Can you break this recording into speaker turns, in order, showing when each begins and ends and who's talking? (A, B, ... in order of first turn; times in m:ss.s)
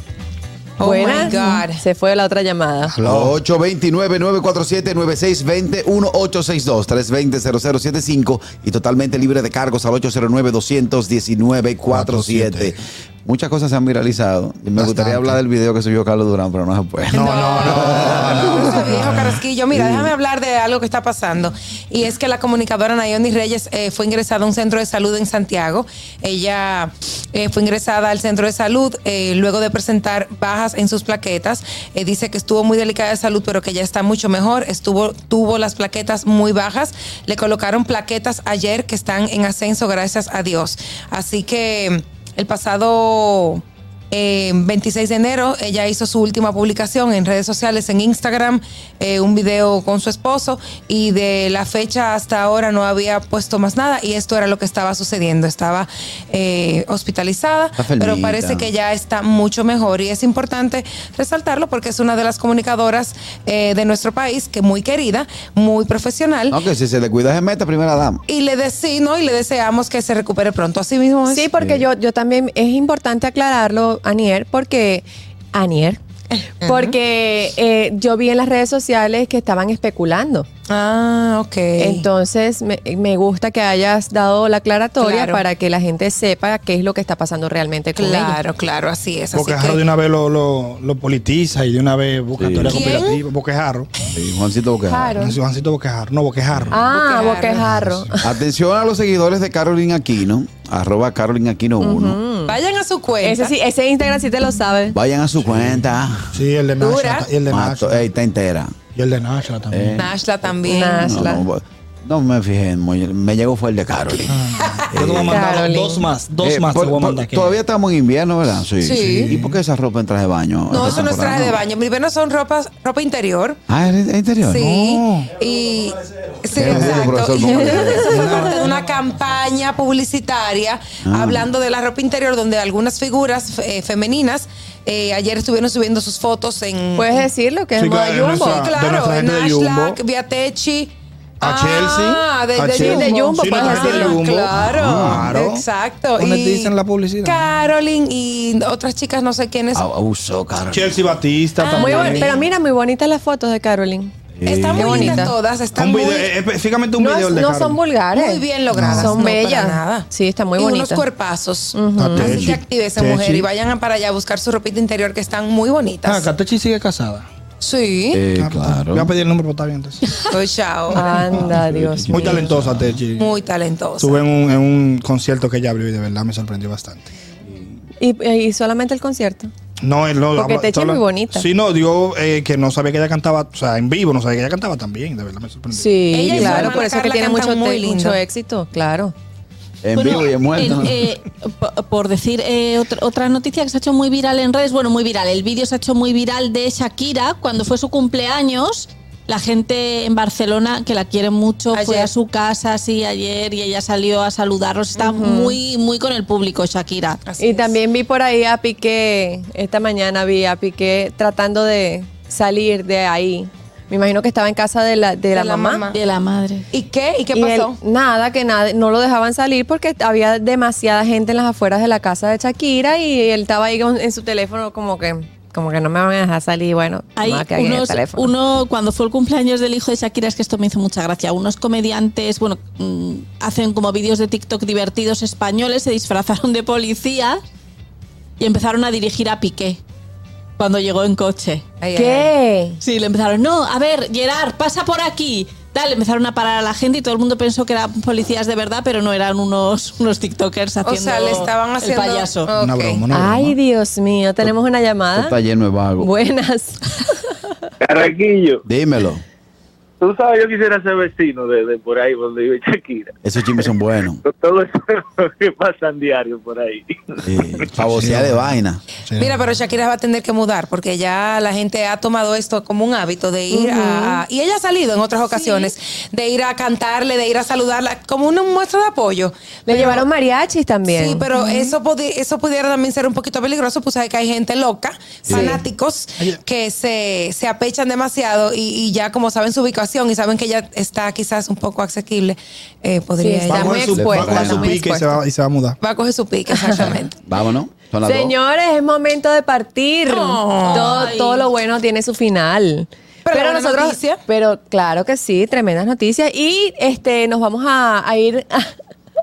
0:00.8-0:01.8 A
0:00.8-0:03.0 B
0:02.9-0:03.4 C
0:03.0-0:19.1 D
0:11.9-0:12.8 C
0:14.8-0:15.4 C
0:17.1-0:19.4 C
0:17.1-1:06.6 A
0:19.7-0:20.1 D
0:57.8-0:58.7 D
1:06.5-1:08.2 D
1:08.3-1:11.5 A
1:11.3-1:16.0 B
1:11.6-1:11.9 D
1:16.6-1:16.9 A
1:16.6-1:20.4 B
1:20.7-1:22.1 A
1:21.8-1:28.4 B
1:25.0-1:25.4 A
1:28.0-1:29.8 A
1:29.3-1:33.9 C
1:32.4-1:32.9 D
1:32.7-1:33.2 A
1:34.1-1:35.2 D
1:34.9-1:35.4 B
1:35.2-1:36.8 C
1:36.7-1:38.3 B
1:36.8-1:37.6 A
1:37.5-1:38.1 C
1:38.2-1:42.2 D
1:41.8-1:42.6 B
1:42.5-1:43.5 A
1:43.2-1:45.0 B
1:44.9-1:46.3 D
1:45.4-1:48.1 C
1:46.8-1:47.3 A
1:47.5-1:48.7 D
1:48.9-1:50.1 C
1:49.7-1:50.1 D
1:50.0-1:51.3 A
1:50.6-1:51.5 B
1:51.0-1:54.4 D
1:54.3-1:57.6 C
1:54.9-1:55.5 D
1:55.3-1:56.1 B
1:56.4-2:01.6 D
1:58.8-1:59.3 A
1:59.0-1:59.5 C
2:00.7-2:03.6 A
2:03.7-2:04.6 D
2:04.4-2:17.3 A
2:04.6-2:05.3 C
2:06.6-2:08.0 D
2:06.6-2:07.2 C
2:07.4-2:08.6 B
2:08.0-2:08.6 C
2:11.0-2:11.5 D
2:17.0-2:18.6 B
2:17.8-2:20.0 C
2:18.0-2:29.8 A
2:21.4-2:27.4 C
2:22.7-2:24.2 B
2:24.5-2:25.4 D
2:29.7-2:31.0 D
2:30.7-2:32.4 C
2:31.6-2:32.4 A
2:31.7-2:34.1 B
2:34.4-2:35.3 D
2:34.4-2:36.3 A
2:34.8-2:35.3 B
2:35.7-2:37.8 C
2:37.0-2:41.0 B
2:38.1-2:46.3 A
2:38.7-2:39.1 C
2:41.7-2:42.4 B
2:41.9-2:43.5 C
2:46.0-2:47.3 C
2:47.6-2:48.2 A
2:48.1-2:49.1 D
2:48.3-2:50.0 C
2:50.3-2:51.4 A
2:50.9-2:52.5 B
2:51.0-2:51.4 C
2:51.3-2:52.9 D
2:52.1-2:53.3 C
2:53.1-2:54.2 A
2:54.0-2:57.1 C
2:58.0-2:59.5 B
2:59.8-3:06.8 C
3:00.3-3:01.5 B
3:05.7-3:09.1 B
3:06.1-3:08.2 A
3:09.8-3:11.1 D
3:09.9-3:27.2 E
3:21.7-3:22.1 A
3:25.0-3:25.6 B
3:27.2-3:27.8 A
3:27.4-3:35.8 B
3:35.3-3:36.0 A
3:35.9-3:36.6 E
3:36.7-3:37.8 A
3:37.3-3:48.3 B
3:47.2-3:57.4 E
3:58.4-3:59.8 E
4:00.6-4:01.6 E
4:01.8-4:02.3 A
4:01.9-4:02.8 B
4:02.8-4:12.5 E
4:10.8-4:13.0 A
4:12.6-4:13.6 C
4:13.1-4:15.4 B
4:15.1-4:16.1 D
4:16.0-4:17.3 B
4:17.9-4:18.6 F
4:18.6-4:19.2 D
4:20.0-4:23.1 F
4:23.2-4:24.2 D
4:24.2-4:24.8 F
4:25.4-4:26.9 F
4:27.2-4:28.8 D
4:27.9-4:29.4 C
4:29.2-4:40.0 A
4:33.5-4:34.2 B
4:39.7-4:41.7 B
4:40.9-4:53.9 A
4:45.3-4:45.6 D
4:53.2-4:55.2 B
4:53.5-4:55.8 C
4:53.9-4:54.8 D
4:55.8-4:57.1 A
4:56.5-4:57.0 B
4:57.2-4:58.4 D
4:58.0-5:08.7 B
5:00.0-5:01.1 A
5:00.7-5:01.5 E
5:03.2-5:04.2 A